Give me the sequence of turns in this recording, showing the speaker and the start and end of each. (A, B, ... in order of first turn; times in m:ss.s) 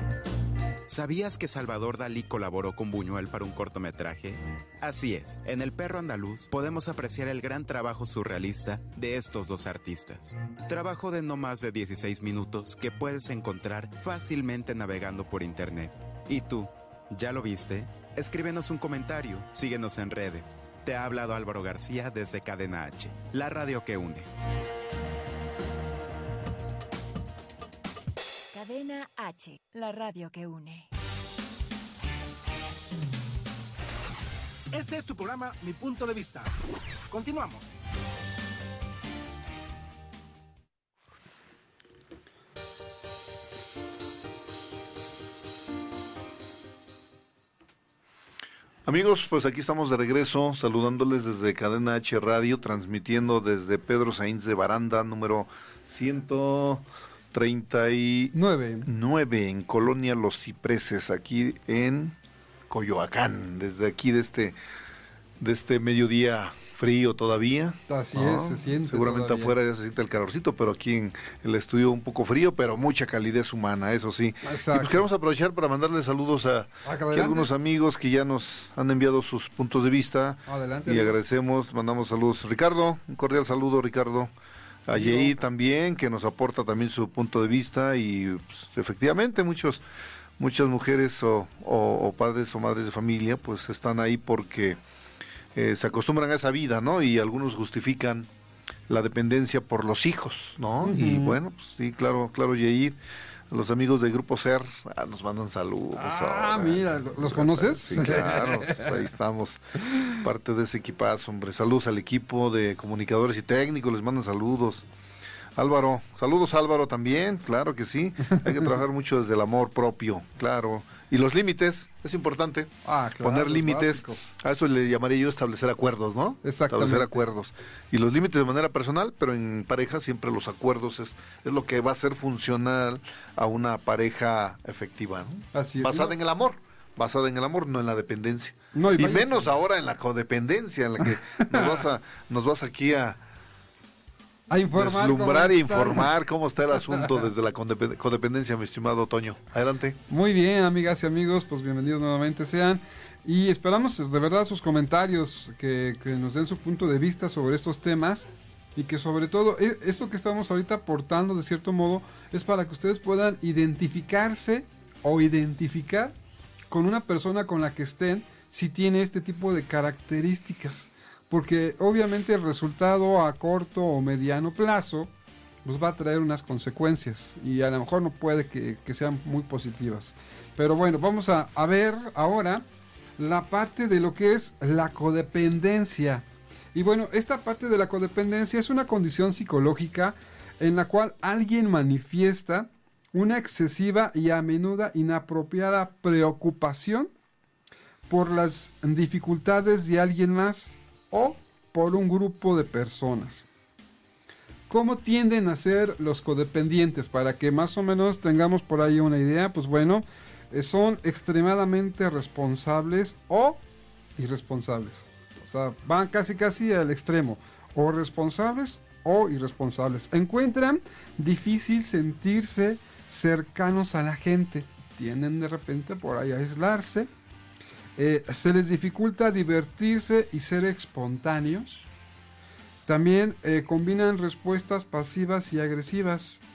0:00.9-0:24.3 A
0:28.5-0:30.9 B
0:34.7-0:36.5 C
0:37.1-0:37.9 C
0:48.8-0:58.3 D
0:58.3-0:58.9 E
0:58.8-1:02.2 D
1:02.7-1:04.6 D
1:05.4-1:24.3 D
1:07.9-1:09.5 E
1:14.4-1:15.1 E
1:16.8-1:17.5 E
1:20.4-1:21.2 E
1:24.8-1:29.8 D
1:24.9-1:25.3 E
1:30.4-1:34.8 D
1:35.5-1:38.3 D
1:38.9-1:43.0 D
1:40.8-1:41.4 E
1:43.5-1:54.8 D
1:45.9-1:49.0 E
1:55.6-2:23.2 D
1:58.3-1:58.6 E
2:02.8-2:04.2 E
2:06.4-2:07.2 E
2:15.5-2:16.1 E
2:18.7-2:19.4 E
2:21.0-2:21.8 E
2:24.5-2:26.1 E
2:24.7-2:30.0 D
2:30.1-2:46.1 E
2:46.7-2:55.1 E
2:55.6-3:02.6 E
3:03.2-3:17.1 E
3:18.1-3:23.5 E
3:24.7-3:33.6 E
3:34.2-3:47.1 E
3:48.0-3:51.9 E
3:52.8-3:56.4 E